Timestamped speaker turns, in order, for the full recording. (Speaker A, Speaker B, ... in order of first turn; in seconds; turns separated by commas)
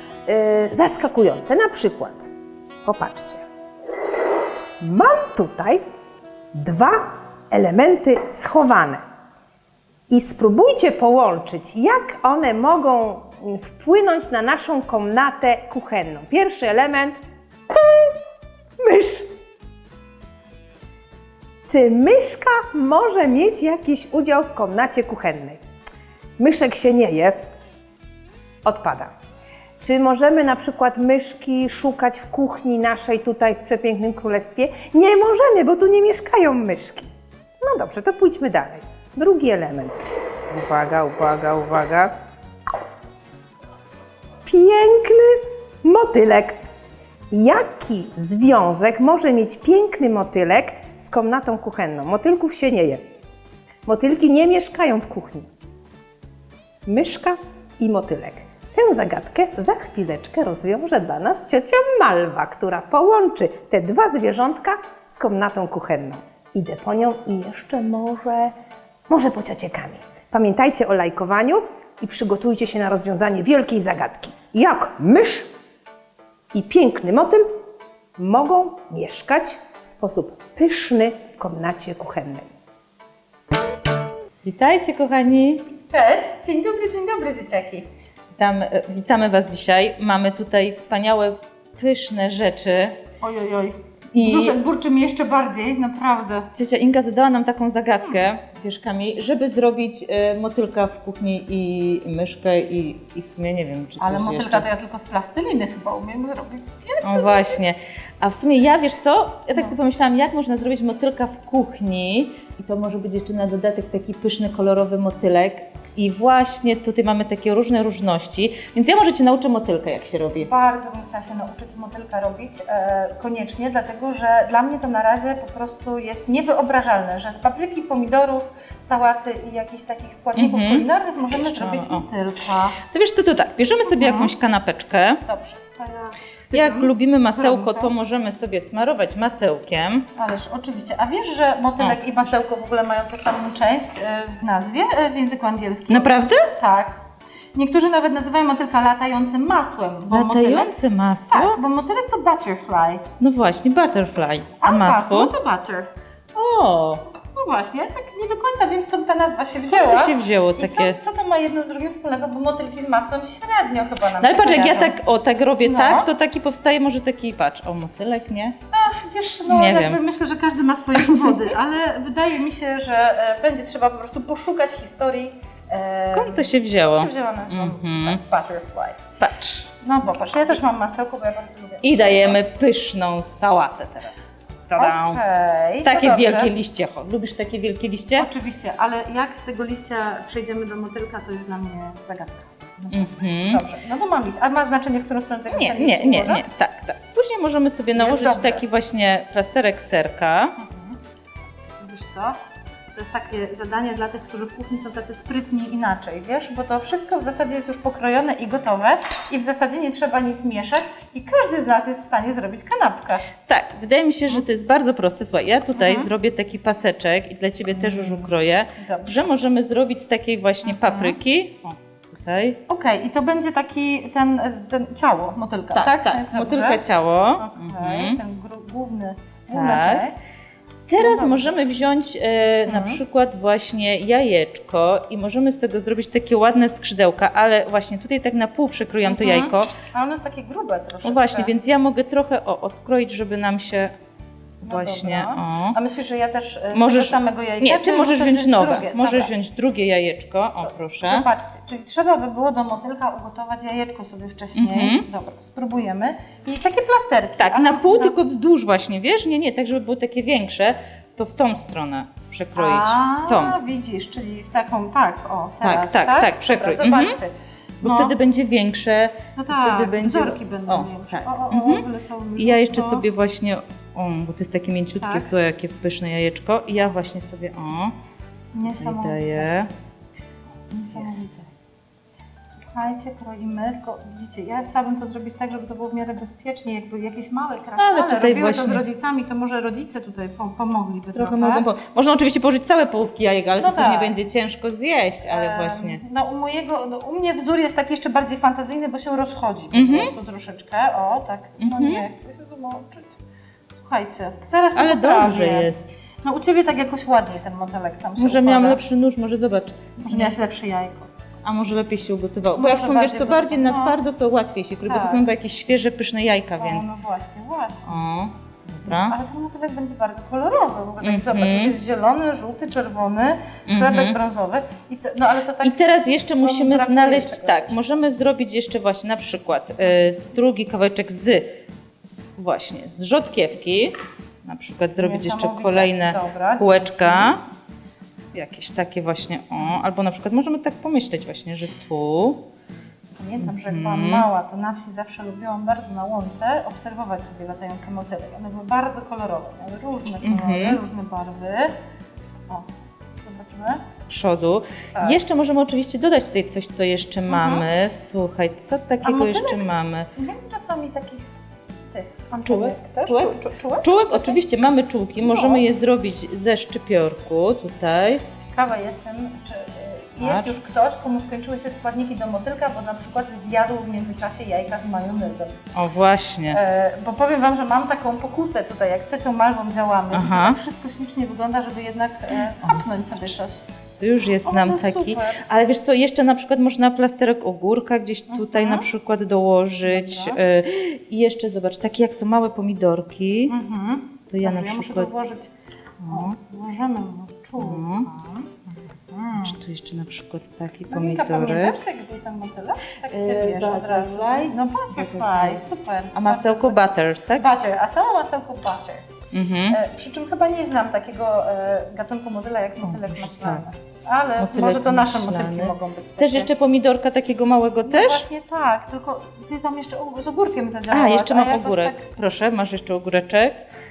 Speaker A: 0.2-2.3, Speaker A: 2.8-3.4, Speaker A: 4.8-5.8, Speaker A: 6.5-9.0, Speaker A: 10.1-18.2, Speaker A: 18.8-19.3, Speaker A: 21.7-25.6, Speaker A: 26.4-27.4, Speaker A: 28.6-29.1, Speaker A: 29.8-37.1, Speaker A: 37.6-42.1, Speaker A: 44.4-46.6, Speaker A: 47.3-53.0, Speaker A: 53.8-55.5, Speaker A: 56.9-68.5, Speaker A: 69.1-75.5, Speaker A: 76.5-77.5, Speaker A: 78.2-82.5, Speaker B: 84.4-85.7, Speaker C: 85.8-87.9, Speaker B: 88.3-93.0, Speaker C: 93.2-96.5, Speaker B: 94.1-94.6, Speaker B: 96.5-104.7, Speaker C: 104.0-107.6, Speaker B: 107.0-120.5, Speaker C: 120.4-132.8, Speaker B: 130.3-132.0, Speaker B: 132.8-135.2, Speaker C: 133.8-134.3, Speaker C: 135.2-137.9, Speaker B: 136.5-140.1, Speaker C: 140.1-147.0, Speaker B: 145.9-146.5, Speaker C: 147.5-150.7, Speaker B: 150.1-151.6, Speaker C: 151.3-153.1, Speaker B: 153.2-155.3, Speaker C: 154.6-155.9, Speaker B: 156.3-157.0, Speaker C: 157.2-164.9, Speaker B: 159.5-161.0, Speaker B: 164.2-168.6, Speaker C: 165.6-166.1, Speaker C: 168.7-179.0, Speaker B: 169.5-170.0, Speaker B: 171.1-171.4, Speaker B: 175.9-178.2, Speaker B: 179.2-179.7, Speaker C: 179.8-182.4, Speaker B: 181.8-185.2, Speaker C: 184.8-186.5, Speaker B: 185.8-188.3, Speaker C: 188.2-196.4, Speaker B: 192.9-193.6, Speaker B: 195.5-200.6, Speaker C: 197.9-198.6, Speaker C: 200.6-201.0, Speaker C: 201.8-202.4, Speaker C: 202.9-213.3, Speaker B: 213.4-222.6, Speaker C: 215.7-216.1, Speaker C: 217.8-219.3, Speaker C: 220.6-221.2, Speaker C: 222.7-226.8, Speaker B: 225.7-228.2, Speaker C: 227.3-230.2, Speaker B: 229.5-230.1, Speaker B: 230.9-239.7, Speaker C: 231.0-231.6, Speaker C: 232.7-233.0, Speaker C: 239.1-241.5, Speaker B: 241.0-243.9, Speaker B: 244.6-245.8, Speaker C: 244.6-249.3, Speaker B: 246.7-251.2, Speaker C: 250.7-258.1, Speaker B: 254.5-255.1, Speaker B: 257.4-263.6, Speaker C: 262.6-268.1, Speaker B: 265.6-267.2, Speaker B: 267.8-271.9, Speaker C: 269.4-273.1, Speaker B: 272.4-277.9, Speaker C: 275.0-275.3, Speaker C: 278.5-279.5, Speaker B: 278.7-279.7, Speaker C: 280.7-281.3, Speaker B: 280.9-281.4, Speaker C: 282.6-291.6, Speaker B: 287.8-288.8, Speaker B: 291.1-296.0, Speaker C: 293.6-294.1, Speaker C: 295.3-303.2, Speaker B: 299.7-300.1, Speaker B: 301.6-302.0, Speaker C: 303.7-305.7, Speaker B: 304.8-305.8, Speaker C: 306.2-308.8, Speaker B: 308.2-310.3, Speaker C: 310.0-311.1, Speaker B: 311.4-316.9, Speaker C: 312.5-314.0, Speaker C: 314.8-315.2, Speaker C: 316.6-317.9, Speaker B: 317.9-319.1, Speaker C: 318.9-327.8, Speaker B: 321.0-321.7, Speaker B: 323.7-324.2, Speaker B: 325.6-331.5, Speaker B: 332.4-337.4, Speaker C: 335.0-337.3, Speaker B: 338.3-342.4, Speaker C: 343.1-351.8, Speaker B: 343.4-344.3, Speaker B: 350.2-350.8, Speaker C: 353.2-353.9, Speaker B: 353.9-360.1, Speaker C: 357.3-357.6, Speaker C: 359.0-359.6, Speaker C: 360.1-361.3, Speaker C: 361.9-364.4, Speaker B: 362.4-368.2, Speaker C: 365.2-365.6, Speaker C: 368.4-375.6, Speaker B: 370.2-370.5, Speaker B: 375.7-376.6, Speaker C: 376.5-383.6, Speaker B: 380.1-380.6, Speaker B: 382.6-383.3, Speaker B: 384.0-393.5, Speaker C: 384.4-385.4, Speaker C: 388.3-388.9, Speaker C: 389.8-390.4, Speaker C: 393.5-395.5, Speaker B: 394.3-395.1, Speaker B: 396.0-396.3, Speaker C: 396.1-399.6, Speaker B: 397.6-398.1, Speaker B: 399.3-401.8, Speaker C: 400.9-409.1, Speaker B: 403.1-407.5, Speaker B: 409.3-409.8, Speaker C: 409.7-416.5, Speaker B: 412.8-413.6, Speaker B: 414.4-418.2, Speaker C: 417.8-422.0, Speaker B: 420.9-423.6